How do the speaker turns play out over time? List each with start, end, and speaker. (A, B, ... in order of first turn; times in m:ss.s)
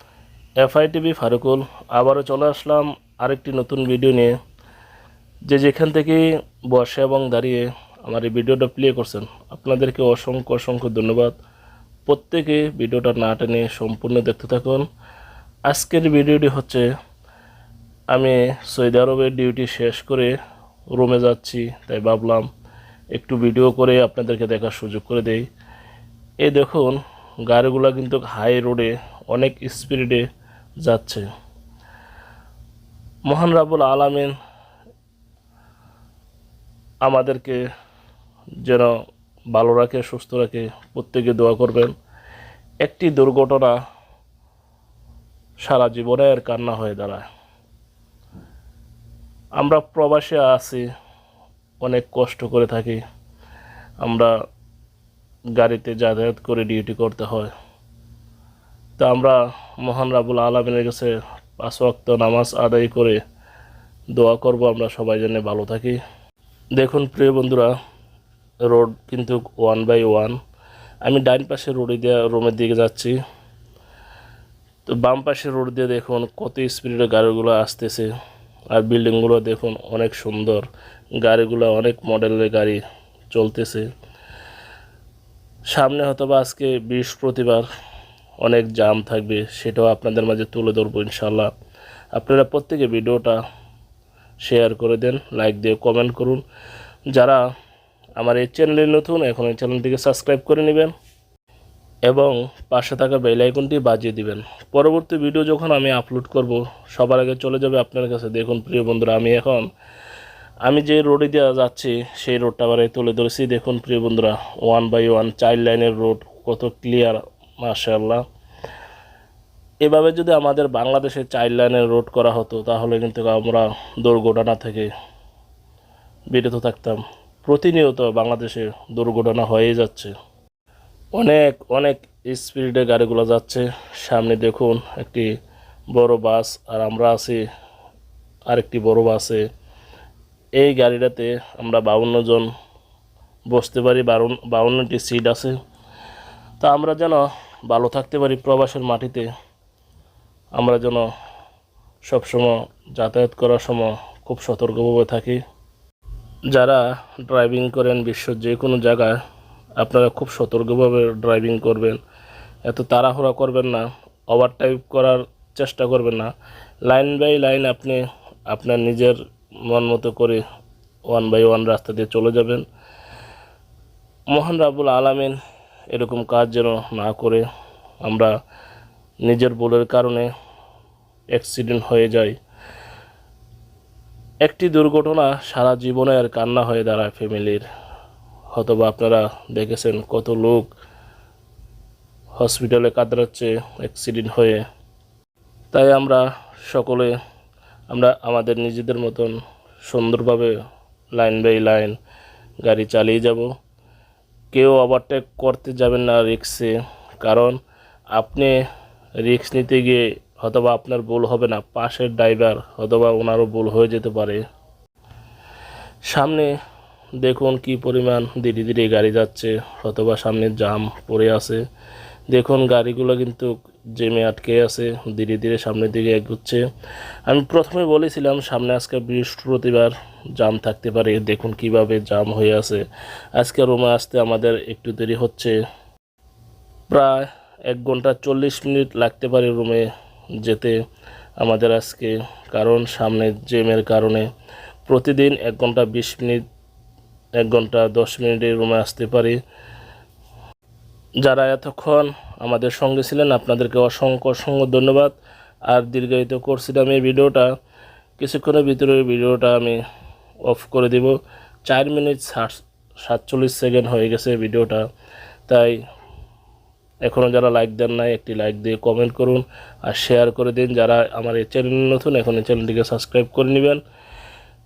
0:00.6-0:04.3 A
0:05.5-0:11.4 A
0:12.1-0:14.9 A
0:15.7-0:16.9 A
0:18.1-0:20.4 A
0:21.0-0:22.5 A
0:23.1-0:25.5 A
0:26.4-0:30.3 A
0:30.8-0:31.3 A
0:33.3-0:34.3 A
0:37.0-0:37.6 A
0:38.6-0:38.9 A
0:39.5-0:41.9 A
0:42.8-0:43.8 A
0:45.6-0:47.3 A
0:49.6-0:50.8 A
0:51.8-0:53.0 A
0:54.0-0:54.3 A
0:55.6-0:57.5 A
0:59.0-1:03.2 A
1:04.2-1:06.0 A
1:06.8-1:07.7 A
1:08.7-1:10.4 A
1:11.0-1:13.2 A
1:14.9-1:18.1 A
1:18.7-1:20.7 A
1:21.2-1:23.9 A
1:25.7-1:27.7 A
1:28.4-1:31.5 A
1:32.1-1:33.4 A
1:34.4-1:36.4 A
1:37.1-1:37.4 A
1:38.2-1:40.9 A
1:42.1-1:49.7 A
1:50.6-1:58.2 A
1:59.8-2:04.9 A
2:06.3-2:10.1 A
2:11.2-2:15.3 A
2:15.9-2:17.4 A
2:18.5-2:19.4 A
2:20.6-2:22.5 A
2:23.5-2:25.6 A
2:26.6-2:29.3 A
2:30.6-2:31.1 A
2:32.1-2:35.4 A
2:36.5-2:39.2 A
2:39.8-2:42.0 A
2:42.7-2:46.3 A
2:46.9-2:49.2 A
2:49.7-2:50.4 A
2:51.1-2:52.6 A
2:54.3-2:55.4 A
2:55.9-2:57.4 A
2:58.0-2:58.3 A
2:59.2-3:00.3 A
3:01.3-3:02.4 A
3:04.4-3:07.6 A
3:08.5-3:10.7 A
3:12.4-3:14.6 A
3:15.7-3:17.2 A
3:17.9-3:20.5 A
3:21.2-3:22.0 A
3:22.6-3:23.5 A
3:24.5-3:27.6 A
3:28.1-3:28.6 A
3:29.2-3:34.4 A
3:36.1-3:36.5 A
3:37.2-3:41.6 A
3:42.3-3:46.6 A
3:47.3-3:52.8 A
3:53.4-3:55.6 A
3:56.9-3:59.9 A
4:00.4-4:00.8 A
4:01.4-4:04.3 A
4:04.9-4:06.4 A
4:07.4-4:09.4 A
4:11.2-4:15.2 A
4:15.7-4:17.5 A
4:18.2-4:19.8 A
4:20.5-4:21.2 A
4:21.7-4:24.8 A
4:25.5-4:25.8 A
4:27.1-4:33.8 A